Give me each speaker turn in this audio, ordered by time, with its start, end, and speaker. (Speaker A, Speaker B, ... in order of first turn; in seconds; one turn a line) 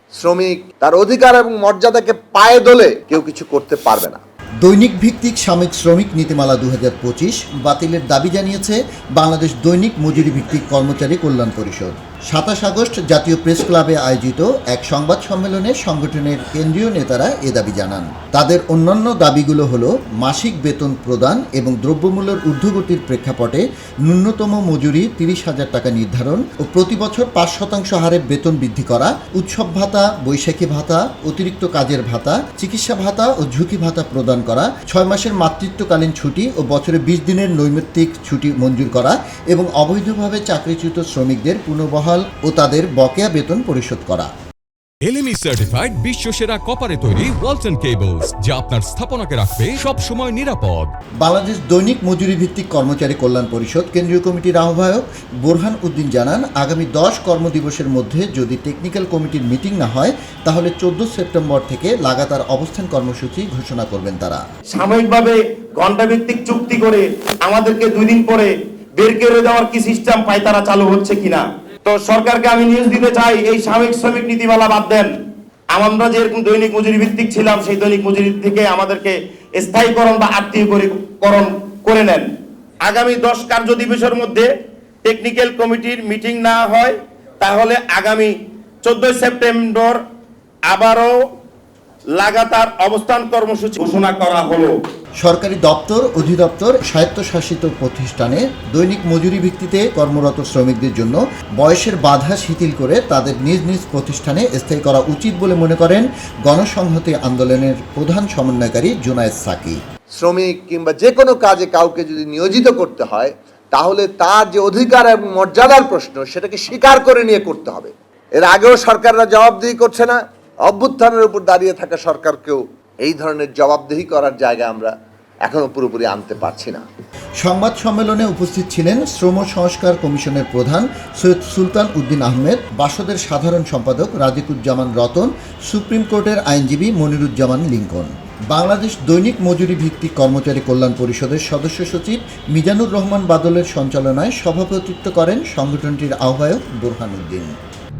Speaker A: 0.2-4.2
Speaker B: 4.6-44.3
Speaker C: 45.0-50.9
Speaker B: 51.2-64.4
Speaker D: 64.7-75.1
Speaker D: 75.7-82.2
Speaker D: 82.8-84.5
Speaker D: 85.0-88.3
Speaker D: 88.8-90.0
Speaker D: 90.7-91.1
Speaker D: 92.2-94.7
Speaker B: 95.2-109.8
Speaker A: 110.1-124.9
Speaker A: 125.5-126.8
Speaker B: 127.4-147.5